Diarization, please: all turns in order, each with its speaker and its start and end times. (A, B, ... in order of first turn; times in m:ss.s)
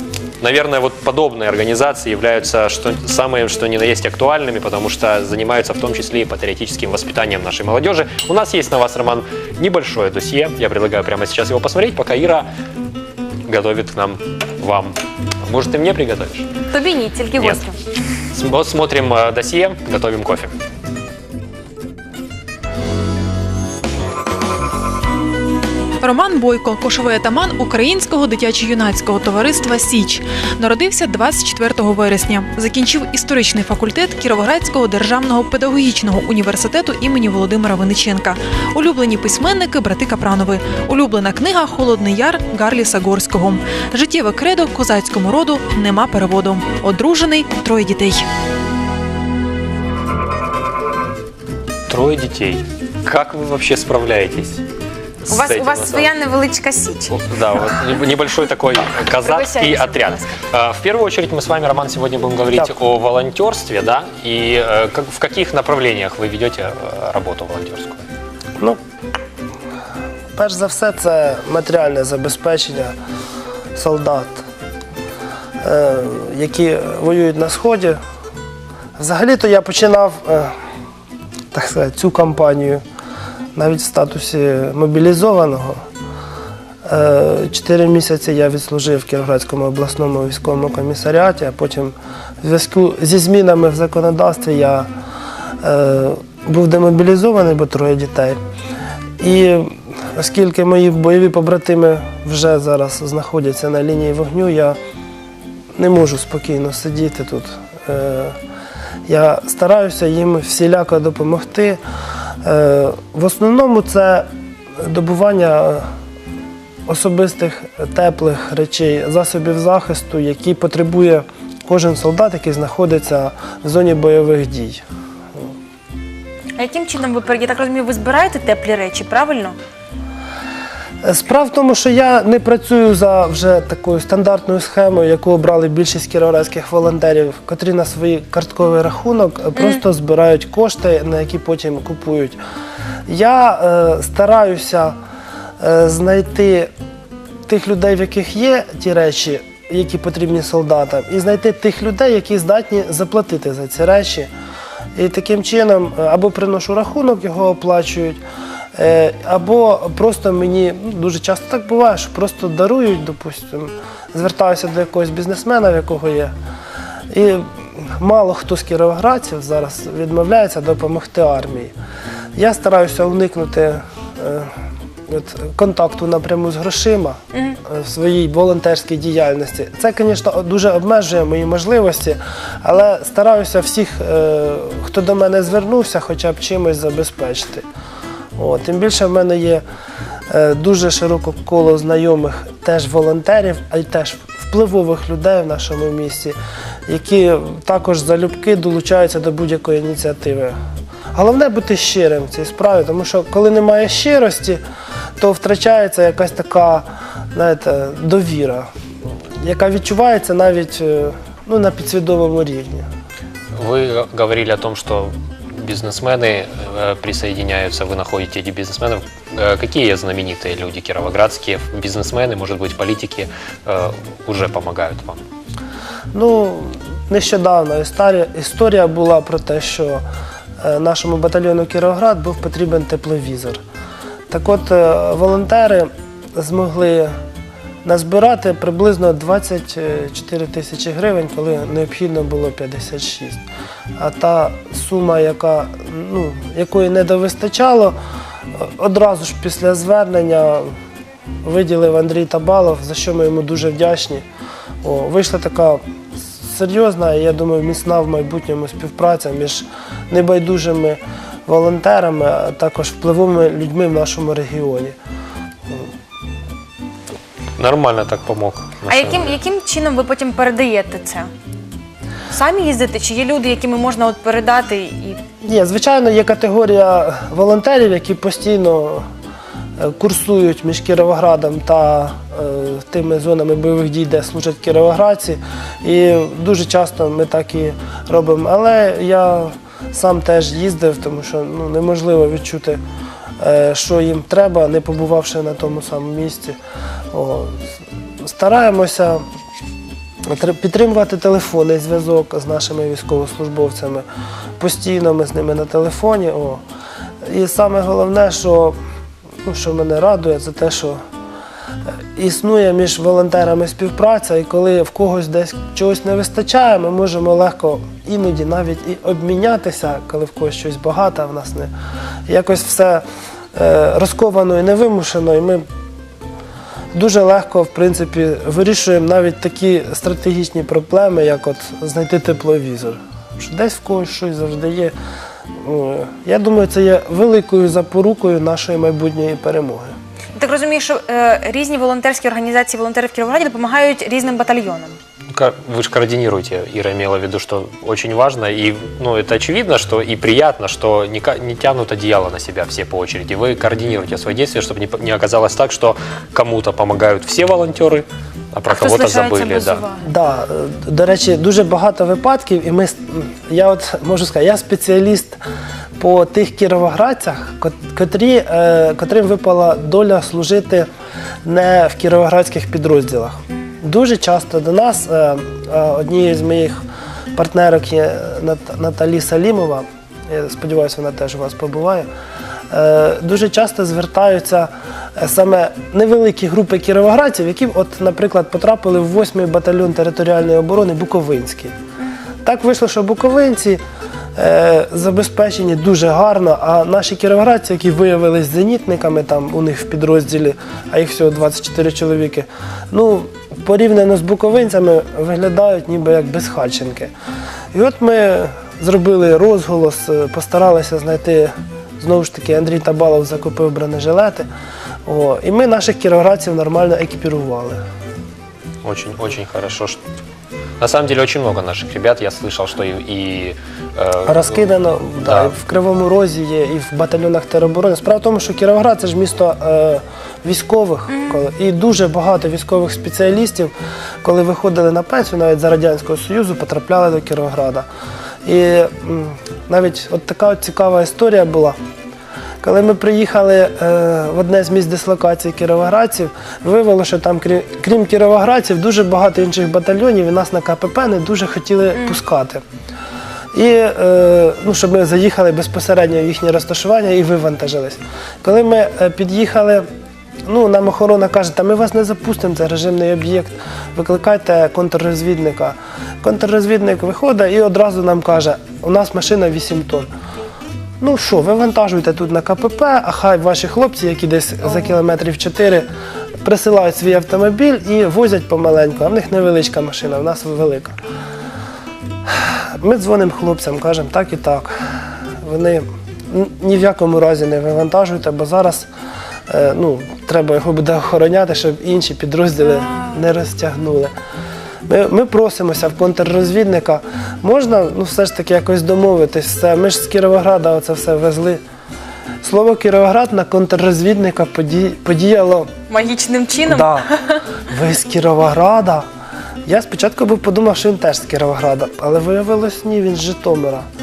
0:00.4-0:12.4 A
0:13.5-0:16.5 A
0:16.7-0:17.8 B
0:18.3-0:20.5 A
0:26.0-0:48.2 C
0:51.9-0:54.6 A
0:55.2-0:56.1 A
0:55.3-0:57.2 B
0:57.1-1:08.0 A
0:59.1-1:00.4 B
1:10.3-1:12.9 D
1:13.7-1:14.4 D
1:15.6-1:18.0 D
1:19.0-1:20.6 D
1:21.5-1:22.8 D
1:23.5-1:25.8 D
1:26.8-1:34.9 D
1:35.6-1:38.4 D
1:39.2-1:44.8 D
1:45.8-1:48.4 D
1:49.1-1:51.8 D
1:52.4-1:54.2 D
1:54.8-1:55.9 D
1:56.9-2:04.8 D
2:06.6-2:09.6 B
2:11.0-2:22.4 D
2:19.6-2:19.8 B
2:23.1-2:25.0 D
2:25.6-2:26.7 D
2:27.5-2:34.3 D
2:35.0-2:38.2 D
2:38.8-2:46.3 D
2:47.1-2:51.7 D
2:52.4-2:54.5 D
2:55.1-3:07.6 D
2:57.3-2:57.6 B
3:08.4-3:09.6 D
3:10.3-3:20.6 D
3:21.1-3:24.6 D
3:25.2-3:28.7 D
3:29.4-3:32.8 D
3:33.5-3:45.2 A
3:46.1-3:50.0 D
3:50.6-3:53.6 D
3:54.3-3:57.1 D
3:57.8-4:03.4 D
4:04.0-4:07.9 D
4:08.6-4:10.7 D
4:11.4-4:14.2 D
4:14.8-4:15.8 D
4:16.4-4:25.0 D
4:27.6-4:29.4 A
4:28.9-4:31.3 B
4:32.3-4:35.2 B
4:35.4-4:39.0 D
4:39.8-4:52.8 D
4:53.4-4:56.6 D
4:57.1-4:57.6 D
4:58.2-4:59.2 D
5:00.2-5:04.0 D
5:04.6-5:06.6 D
5:07.2-5:08.8 D
5:09.4-5:11.0 D
5:12.1-5:21.7 D
5:22.3-5:25.6 D
5:26.9-5:34.9 D
5:35.6-5:39.9 D
5:40.3-5:44.9 B
5:45.3-5:59.8 A
5:58.7-6:00.0 B
6:00.0-6:05.4 D
6:06.0-6:10.9 D
6:11.4-6:16.8 D
6:17.3-6:22.1 D
6:22.7-6:31.7 D
6:32.4-6:33.8 D
6:34.4-6:47.1 D
6:47.7-6:54.5 D
6:55.0-6:57.8 D
6:58.8-7:00.0 A
7:00.8-7:04.7 A
7:04.2-7:13.7 D
7:05.2-7:05.5 A
7:11.1-7:11.4 B
7:14.2-7:17.9 D
7:18.4-7:21.8 D
7:22.6-7:32.6 D
7:31.9-7:32.2 B
7:33.5-7:39.8 D
7:40.5-7:50.1 D
7:51.0-7:55.8 D
7:56.4-8:01.0 D
8:02.8-8:04.9 D
8:05.4-8:08.9 D
8:09.5-8:14.1 D
8:12.9-8:13.2 B
8:14.9-8:21.6 D
8:22.4-8:25.7 D
8:25.9-8:27.4 B
8:26.7-8:27.1 D
8:27.7-8:29.0 D
8:29.6-8:33.9 D